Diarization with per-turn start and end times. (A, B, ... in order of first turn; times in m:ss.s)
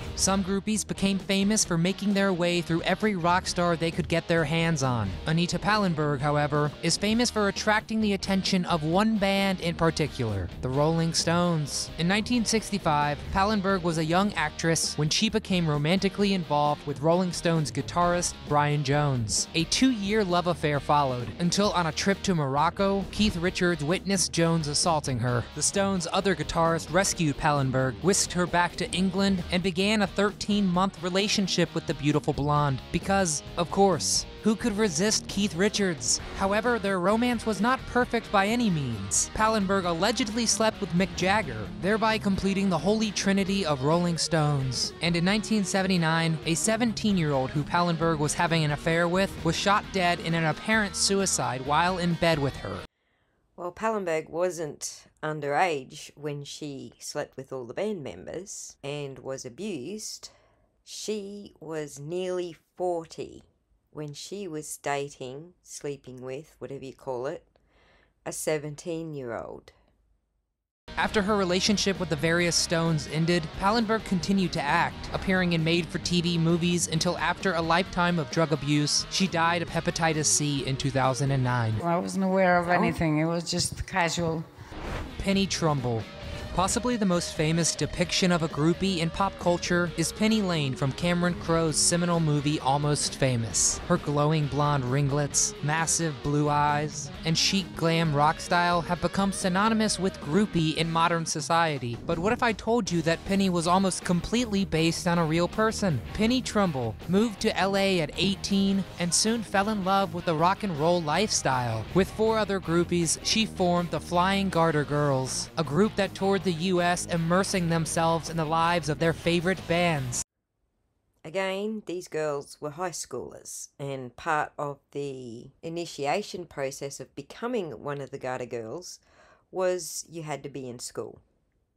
0:00.2-0:52.8 A
0:53.6-1:00.3 B
1:00.8-1:07.5 B
1:08.2-1:09.7 B
1:11.0-1:21.8 A
1:21.8-1:24.5 C
1:22.7-1:23.0 A
1:25.2-2:00.2 A
2:01.2-2:11.2 B